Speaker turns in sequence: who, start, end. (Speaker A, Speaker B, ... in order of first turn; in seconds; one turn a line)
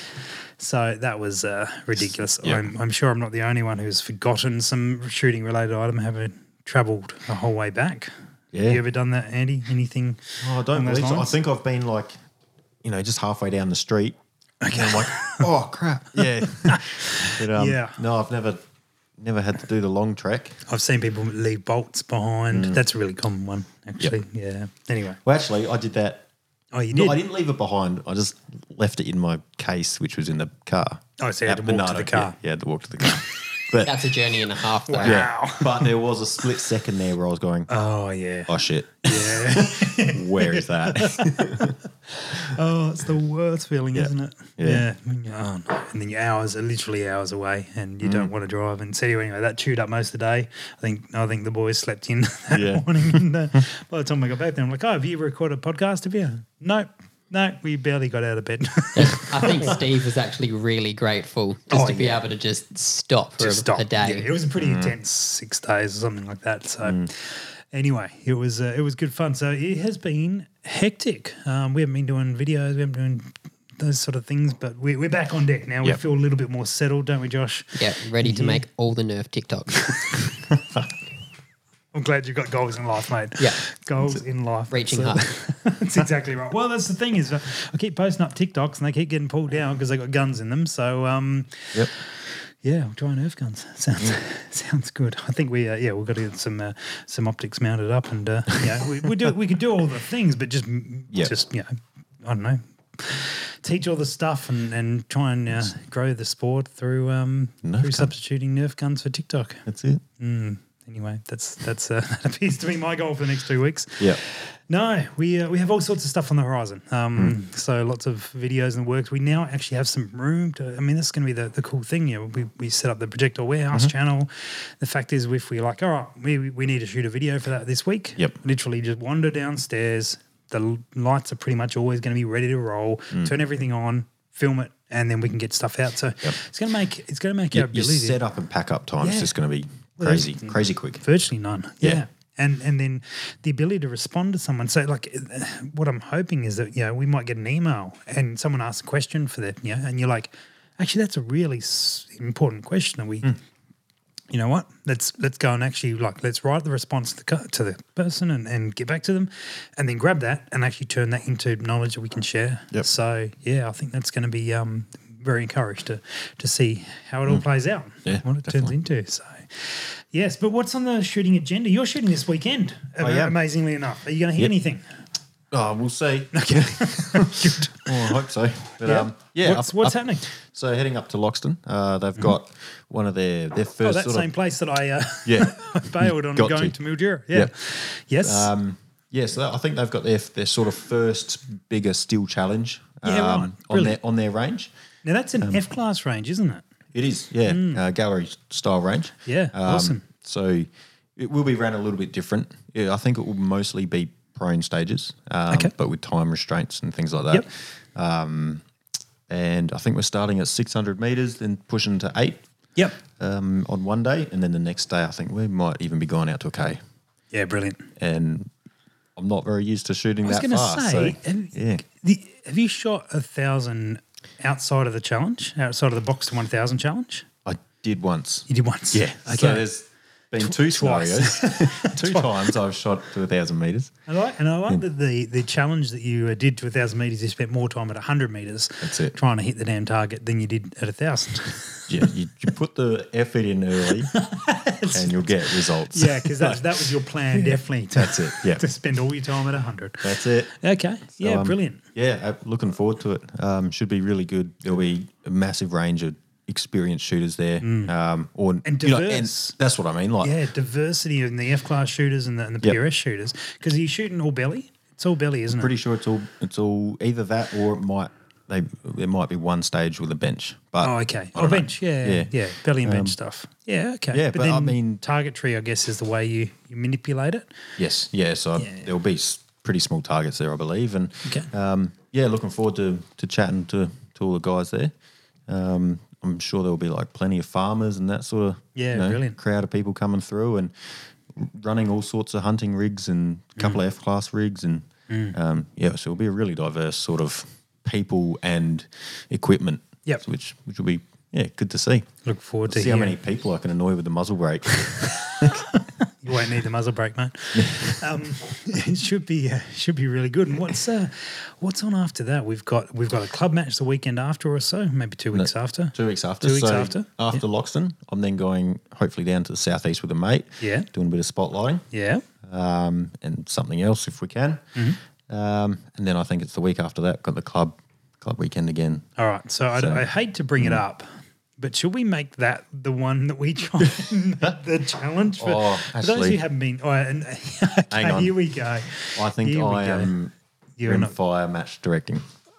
Speaker A: 0.6-11.3
Speaker B: 8.5-8.8
Speaker B: 10.4-12.1
Speaker B: 12.8-14.2
Speaker A: 14.6-15.5
Speaker B: 14.7-18.6
Speaker A: 16.2-18.0
Speaker B: 19.2-20.6
Speaker A: 20.7-25.2
Speaker B: 22.5-22.8
Speaker B: 25.2-26.3
Speaker A: 26.7-27.2
Speaker B: 26.9-34.0
Speaker A: 31.2-32.4
Speaker C: 33.8-35.3
Speaker A: 34.9-35.9
Speaker B: 35.0-37.7
Speaker A: 37.7-59.8
Speaker B: 38.5-41.8
Speaker B: 43.9-44.9
Speaker B: 48.0-48.3
Speaker B: 52.5-53.2
Speaker C: 59.0-64.3
Speaker A: 61.7-62.2
Speaker A: 63.4-78.6
Speaker B: 64.6-65.0
Speaker B: 66.8-67.1
Speaker C: 77.8-80.0
Speaker A: 81.9-109.7
Speaker C: 84.7-85.2
Speaker B: 107.6-108.1
Speaker B: 109.7-110.0
Speaker A: 110.2-138.2
Speaker B: 137.5-141.0
Speaker A: 139.0-139.4
Speaker A: 140.0-153.4
Speaker A: 154.3-174.9
Speaker B: 168.1-168.7
Speaker B: 173.0-173.4
Speaker B: 175.5-184.3
Speaker A: 176.3-178.2
Speaker A: 178.8-180.2
Speaker A: 183.8-188.5
Speaker B: 185.2-186.8
Speaker B: 188.2-194.7
Speaker A: 193.0-194.0
Speaker A: 195.0-196.6
Speaker B: 196.9-208.6
Speaker A: 197.5-197.8
Speaker A: 199.2-200.0
Speaker B: 209.3-212.4
Speaker B: 213.0-216.8
Speaker A: 217.3-217.9
Speaker B: 218.0-218.5
Speaker B: 219.2-221.8
Speaker A: 220.2-227.3
Speaker B: 227.4-233.9
Speaker A: 228.5-229.7
Speaker A: 230.4-232.3
Speaker A: 234.1-241.9
Speaker B: 238.8-239.1
Speaker B: 241.9-244.2
Speaker A: 244.1-251.8
Speaker B: 244.9-248.6
Speaker B: 250.0-250.5
Speaker B: 251.2-260.4
Speaker A: 257.6-257.9
Speaker A: 258.6-259.6
Speaker A: 260.2-265.7
Speaker B: 265.5-273.2
Speaker A: 270.8-277.7
Speaker B: 274.1-275.0
Speaker B: 277.8-284.9
Speaker A: 278.6-278.9
Speaker A: 281.2-281.5
Speaker B: 285.5-302.1
Speaker A: 288.7-289.4
Speaker A: 295.1-295.4
Speaker A: 302.2-303.2
Speaker B: 302.7-305.6
Speaker A: 305.4-317.4
Speaker B: 307.6-307.9
Speaker B: 315.3-321.9
Speaker A: 320.6-320.9
Speaker A: 321.9-322.2
Speaker B: 322.4-324.7
Speaker B: 325.3-329.1
Speaker A: 329.2-331.1
Speaker B: 329.7-330.1
Speaker A: 331.6-340.1
Speaker B: 335.4-336.4
Speaker B: 337.9-338.4
Speaker B: 339.1-340.3
Speaker A: 340.8-341.1
Speaker B: 340.8-342.2